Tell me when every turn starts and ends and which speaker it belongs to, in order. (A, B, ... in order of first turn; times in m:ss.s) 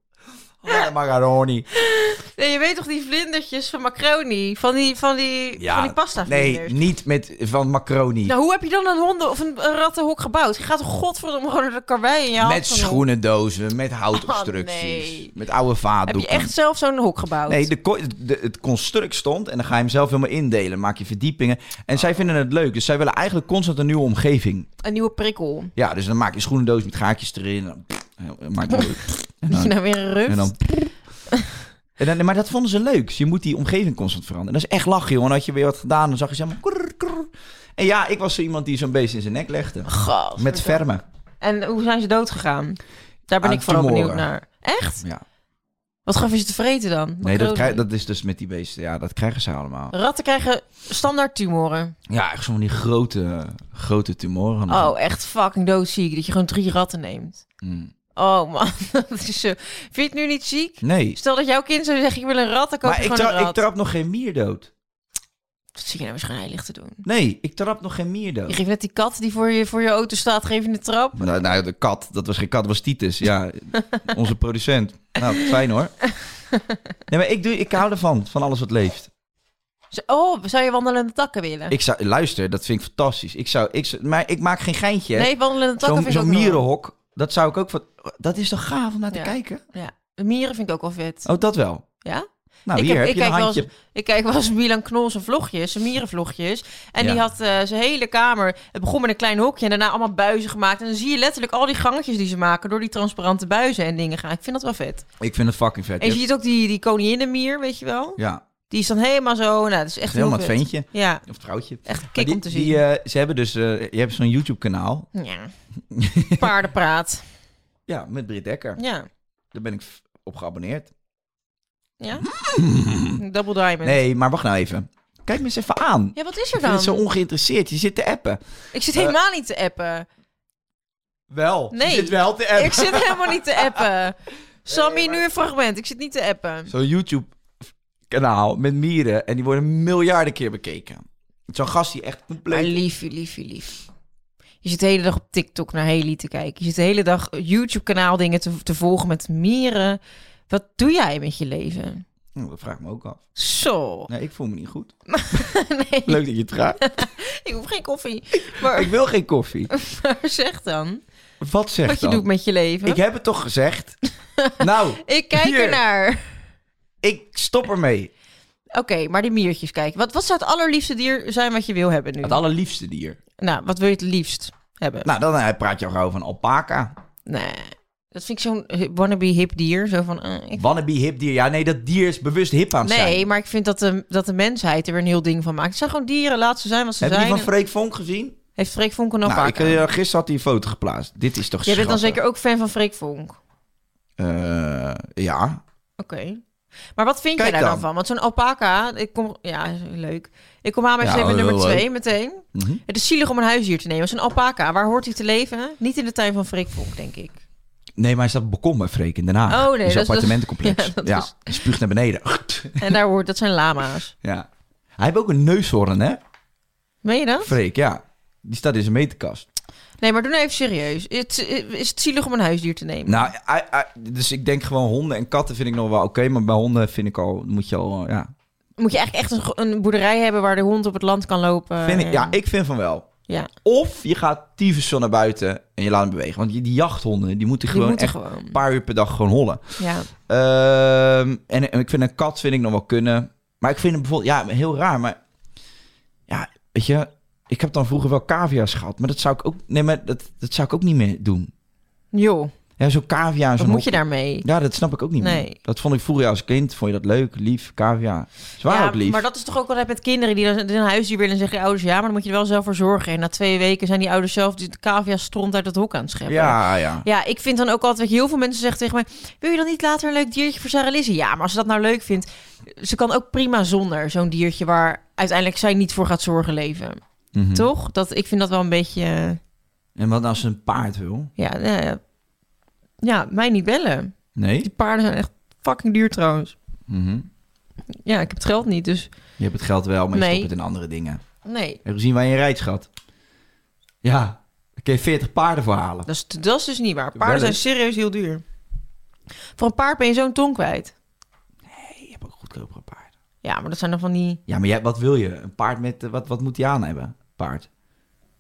0:00.6-0:01.7 A
0:01.8-0:06.8 B
0:05.6-0:08.3 A
0:08.3-0:13.0 B
0:12.4-0:16.5 A
0:14.1-0:15.3 B
0:16.1-0:17.7 B
0:17.5-0:24.7 A
0:24.8-0:25.7 B
0:25.8-0:29.7 A
0:29.5-0:30.6 B
0:30.3-0:30.6 A
0:32.0-0:41.0 A
0:39.9-0:40.8 B
0:41.4-0:45.0 B
0:43.4-0:44.3 A
0:46.1-0:47.8 B
0:47.2-0:49.9 A
0:49.9-0:52.0 B
0:52.1-0:54.9 A
0:54.7-0:57.4 B
0:57.6-0:57.9 A
0:58.2-1:03.6 B
1:00.8-1:01.2 A
1:02.8-1:04.7 A
1:05.8-1:07.0 B
1:07.0-1:08.6 A
1:08.5-1:11.2 B
1:11.2-1:15.9 A
1:17.1-1:19.1 A
1:19.9-1:21.8 B
1:21.7-1:29.6 A
1:25.2-1:26.6 B
1:29.1-1:31.3 B
1:31.2-1:31.8 A
1:32.0-1:45.0 B
1:32.7-1:33.7 A
1:45.2-1:46.2 A
1:46.0-1:48.2 B
1:48.2-1:48.4 A
1:48.7-1:51.2 B
1:50.1-1:55.1 A
1:51.8-1:52.8 B
1:55.2-1:55.5 B
1:55.9-1:56.5 A
1:56.4-1:57.2 B
1:57.9-1:58.8 A
1:58.8-1:59.1 B
1:59.5-2:00.9 A
2:02.0-2:02.3 B
2:02.2-2:03.2 A
2:03.2-2:04.0 B
2:03.8-2:08.4 A
2:06.2-2:07.0 B
2:08.7-2:10.1 B
2:11.3-2:13.8 A
2:11.7-2:16.7 B
2:14.7-2:15.2 A
2:16.7-2:17.3 A
2:18.1-2:22.8 A
2:22.5-2:23.8 B
2:24.6-2:32.0 B
2:32.4-2:33.2 A
2:33.4-2:34.1 B
2:34.1-2:34.9 A
2:35.1-2:36.2 B
2:36.1-2:36.8 A
2:36.8-2:38.9 B
2:38.5-2:39.7 A
2:39.7-2:41.0 B
2:41.4-2:42.2 A
2:41.8-2:43.0 B
2:42.8-2:44.0 A
2:44.4-2:46.4 B
2:44.6-2:45.8 A
2:47.0-2:48.1 A
2:48.7-2:52.4 B
2:52.2-2:53.2 A
2:53.4-2:55.1 B
2:55.0-2:57.0 A
2:57.3-3:00.7 B
3:00.6-3:03.3 A
3:02.8-3:07.5 B
3:07.0-3:08.4 A
3:08.6-3:09.8 B
3:09.2-3:12.2 A
3:11.6-3:13.4 B
3:14.2-3:15.6 A
3:16.0-3:16.4 B
3:17.0-3:27.4 B
3:17.4-3:17.8 A
3:21.0-3:21.9 A
3:22.6-3:22.8 A
3:28.0-3:33.0 A
3:29.5-3:31.5 B
3:32.8-3:34.1 B
3:34.2-3:34.5 A
3:35.0-3:36.2 A
3:37.0-3:37.5 B
3:37.4-3:39.5 A
3:40.0-3:43.3 B
3:43.1-3:48.3 A
3:48.8-3:52.4 B
3:51.8-3:53.1 A
3:53.6-4:05.2 A
3:57.7-3:58.6 B
3:59.8-4:00.1 B
4:06.3-4:11.5 A
4:12.1-4:12.5 B
4:12.8-4:19.2 A
4:13.6-4:14.4 B
4:15.2-4:15.6 B
4:18.6-4:37.0 B
4:26.3-4:27.1 A
4:37.3-4:37.7 A
4:37.5-4:39.4 B
4:40.0-4:41.3 A
4:41.4-4:42.0 B
4:43.0-4:46.6 B
4:44.4-4:44.7 A
4:46.9-4:47.3 A
4:48.0-4:49.1 B
4:49.4-4:51.2 A
4:50.1-4:50.5 B
4:51.4-4:51.8 B
4:51.8-4:52.9 A
4:54.0-4:56.1 A
4:56.1-4:58.4 B
4:57.2-4:57.6 A
4:59.6-5:00.9 B
5:01.7-5:03.1 A
5:03.4-5:04.4 B
5:04.5-5:07.7 A